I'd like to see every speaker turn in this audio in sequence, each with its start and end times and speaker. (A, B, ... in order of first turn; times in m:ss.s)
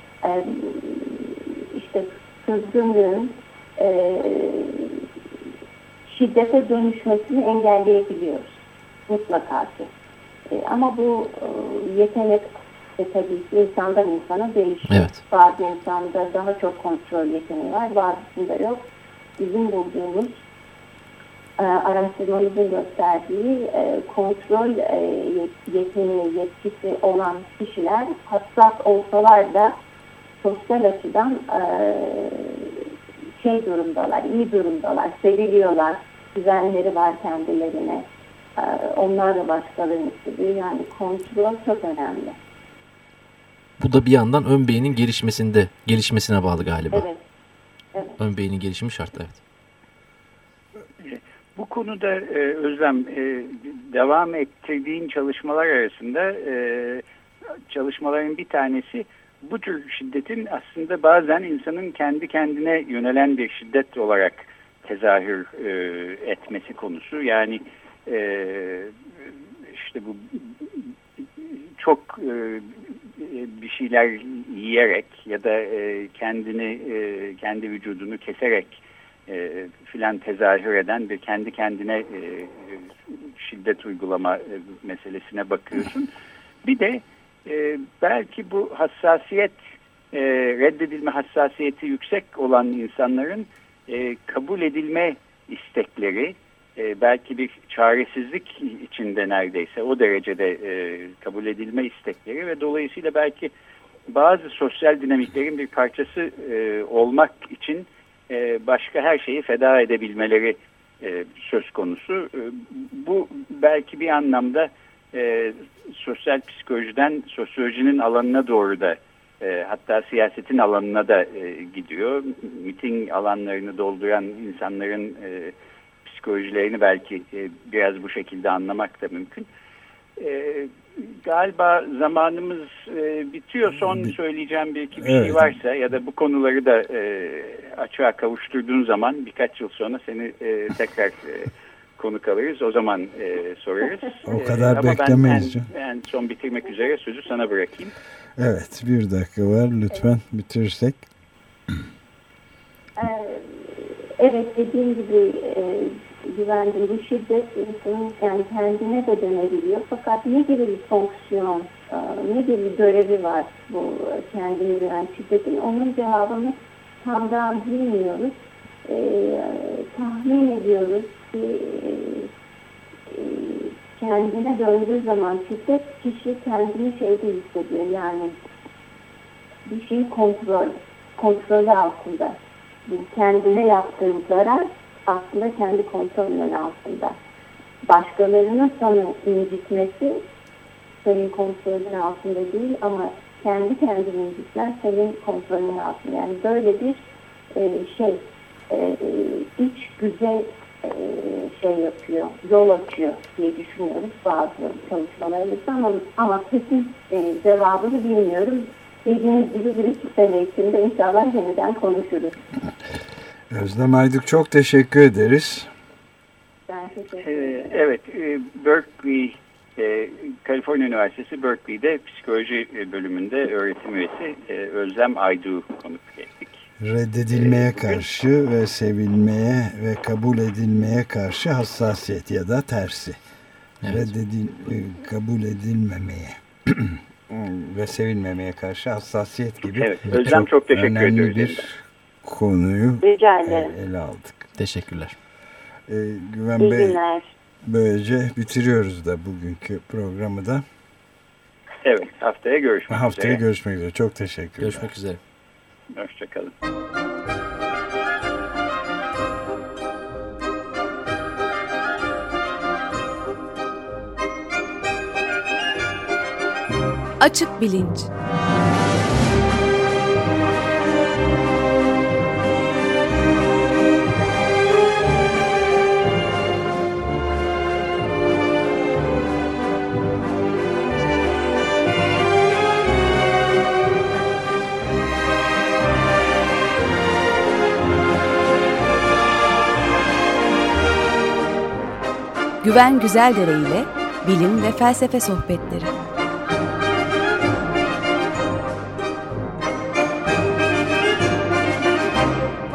0:00.2-0:05.1 A
0:06.1-0:09.9 A
0:10.5-0:18.8 A
0:14.9-0:15.2 B
0:19.4-0:20.4 A
0:21.6-0:29.7 A
0:30.4-0:38.0 A
0:38.6-0:42.4 A
0:43.8-0:47.1 B
0:46.9-0:47.2 A
0:48.2-0:49.4 B
0:51.0-0:57.0 C
0:57.7-1:08.9 C
1:09.7-1:10.9 C
1:11.4-1:26.1 C
1:26.6-1:29.6 C
1:30.1-1:43.5 C
1:44.1-2:05.5 C
2:06.0-2:09.5 C
2:10.2-2:27.9 C
2:15.0-2:15.5 D
2:24.2-2:25.7 D
2:28.4-2:31.0 D
2:33.0-2:48.3 A
2:48.8-2:52.3 A
2:53.1-2:58.4 A
2:59.7-3:07.2 A
3:07.8-3:10.2 A
3:11.0-3:32.4 A
3:33.5-3:35.7 D
3:36.7-3:37.8 A
3:37.3-3:46.5 C
3:46.8-3:53.2 D
3:47.3-3:48.0 C
3:53.8-4:04.5 D
3:59.8-4:01.7 C
4:03.0-4:03.7 A
4:04.6-4:05.2 B
4:05.9-4:07.0 D
4:06.6-4:07.3 A
4:07.6-4:10.6 D
4:11.8-4:13.4 C
4:12.9-4:14.9 D
4:14.6-4:15.2 B
4:15.9-4:16.5 C
4:27.2-4:28.1 E
4:52.6-4:55.9 E